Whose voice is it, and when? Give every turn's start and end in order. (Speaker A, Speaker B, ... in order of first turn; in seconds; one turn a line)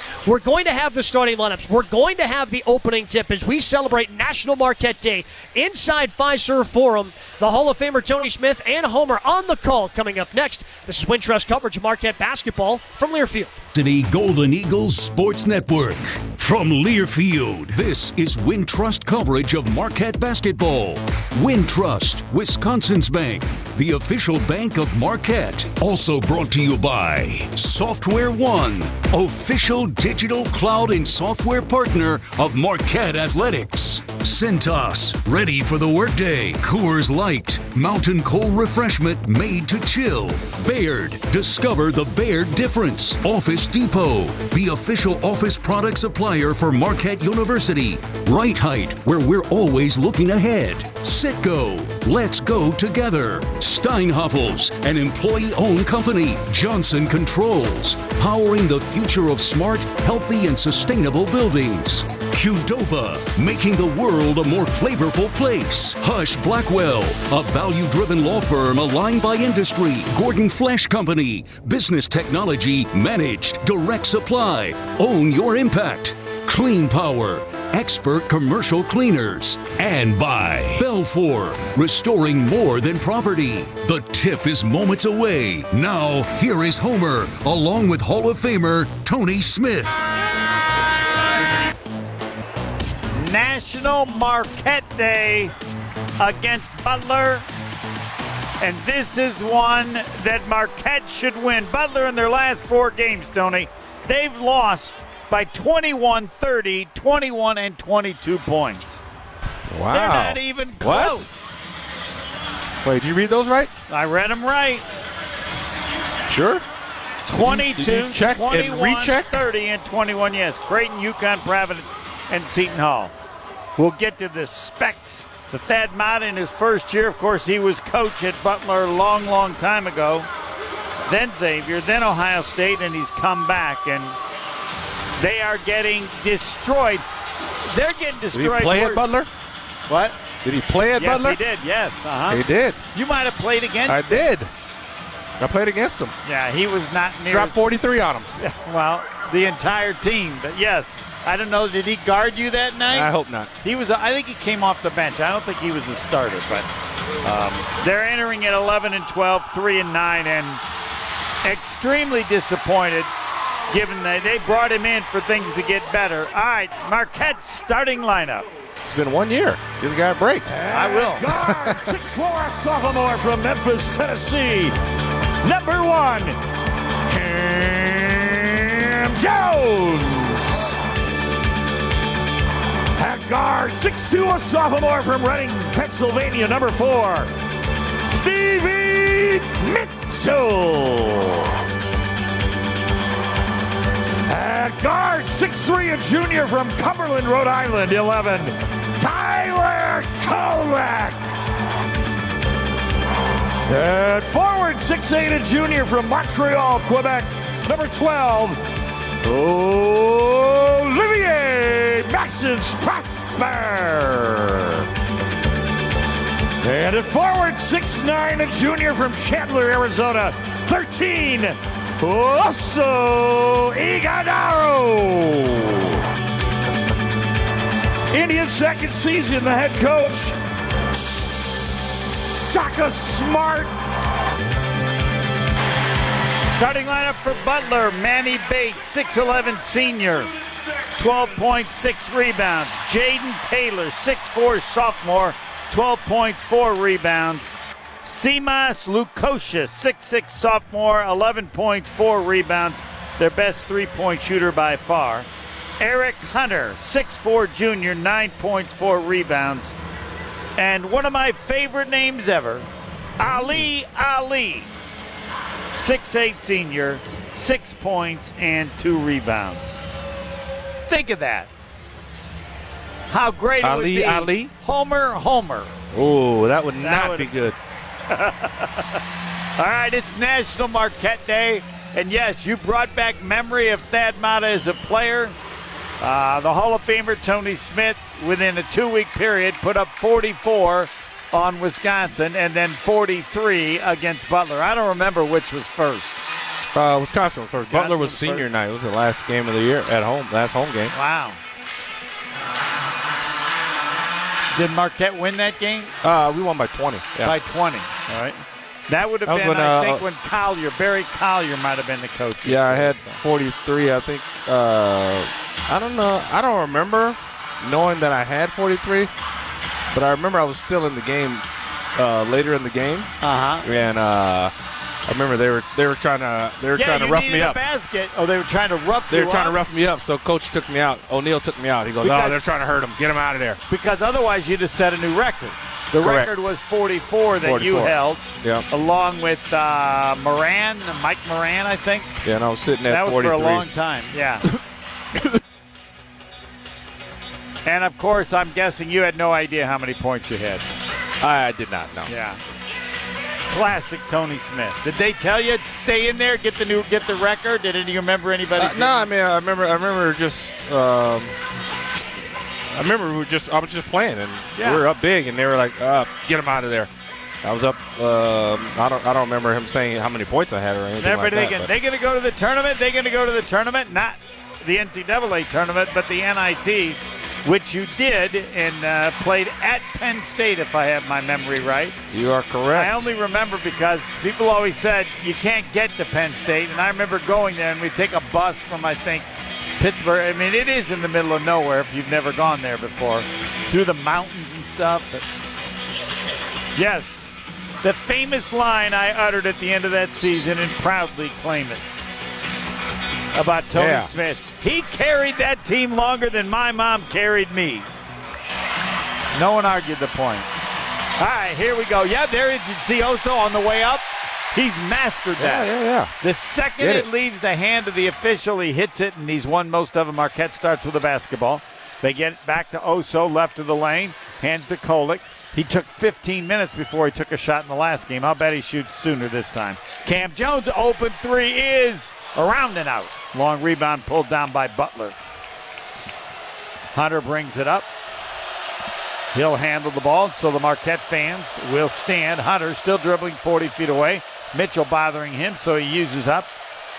Speaker A: 0.2-13.6
Speaker B: 13.7-90.1
Speaker C: 93.1-95.5
Speaker C: 96.2-97.5
Speaker C: 98.6-109.0
Speaker D: 109.7-111.3
Speaker C: 109.9-111.3
Speaker D: 112.8-113.7
Speaker C: 113.9-114.8
Speaker D: 116.3-116.6
Speaker C: 117.3-123.1
Speaker D: 117.3-119.4
Speaker C: 123.8-130.3
Speaker C: 131.1-134.2
Speaker C: 135.2-137.0
Speaker C: 137.6-139.1
Speaker D: 138.3-139.3
Speaker C: 139.9-140.3
Speaker D: 140.4-141.4
Speaker C: 140.9-144.3
Speaker D: 142.3-142.8
Speaker D: 143.9-144.5
Speaker D: 145.4-146.1
Speaker C: 146.2-147.6
Speaker D: 147.3-148.3
Speaker C: 148.4-153.1
Speaker D: 152.9-153.5
Speaker C: 153.6-160.6
Speaker C: 161.4-163.1
Speaker C: 163.7-168.5
Speaker D: 168.8-170.5
Speaker E: 170.5-174.8
Speaker C: 170.7-171.3
Speaker D: 171.3-171.9
Speaker E: 175.4-176.4
Speaker E: 177.1-180.8
Speaker E: 182.9-187.3
Speaker E: 188.1-191.5
Speaker E: 194.2-201.3
Speaker E: 203.7-208.6
Speaker E: 209.2-214.8
Speaker E: 216.6-226.0
Speaker E: 228.1-230.4
Speaker E: 230.9-233.7
Speaker C: 236.5-240.3
Speaker E: 240.5-240.9
Speaker C: 241.0-255.3
Speaker C: 255.8-259.7
Speaker C: 260.6-262.7
Speaker C: 263.2-264.7
Speaker C: 265.7-269.8
Speaker C: 270.9-271.5
Speaker C: 273.1-275.8
Speaker D: 273.6-274.5
Speaker D: 275.9-277.6
Speaker C: 276.8-277.3
Speaker C: 278.1-279.0
Speaker C: 279.6-285.3
Speaker C: 286.0-296.2
Speaker D: 296.7-300.9
Speaker C: 297.7-298.5
Speaker C: 300.9-301.4
Speaker C: 304.5-305.9
Speaker D: 306.0-307.4
Speaker C: 307.2-313.2
Speaker D: 309.2-310.1
Speaker D: 312.4-319.1
Speaker D: 319.9-323.1
Speaker C: 323.2-323.6
Speaker D: 323.6-324.5
Speaker D: 325.1-327.6
Speaker C: 326.7-329.6
Speaker D: 329.1-333.6
Speaker C: 332.0-332.4
Speaker C: 333.7-342.2
Speaker D: 336.0-336.3
Speaker D: 337.4-338.6
Speaker D: 342.2-343.8
Speaker C: 342.9-344.4
Speaker D: 345.1-345.4
Speaker C: 347.6-350.6
Speaker D: 351.2-352.1
Speaker C: 352.1-352.4
Speaker C: 353.5-359.1
Speaker D: 358.6-361.3
Speaker D: 362.7-366.9
Speaker C: 364.5-364.8
Speaker D: 367.4-371.7
Speaker C: 371.0-382.0
Speaker D: 382.1-383.0
Speaker C: 382.7-395.2
Speaker C: 396.7-397.3
Speaker C: 397.8-401.8
Speaker C: 403.3-407.9
Speaker D: 403.7-404.1
Speaker C: 409.3-410.5
Speaker C: 411.2-435.1
Speaker D: 415.4-416.1
Speaker D: 416.8-417.1
Speaker C: 436.9-437.9
Speaker C: 439.3-446.5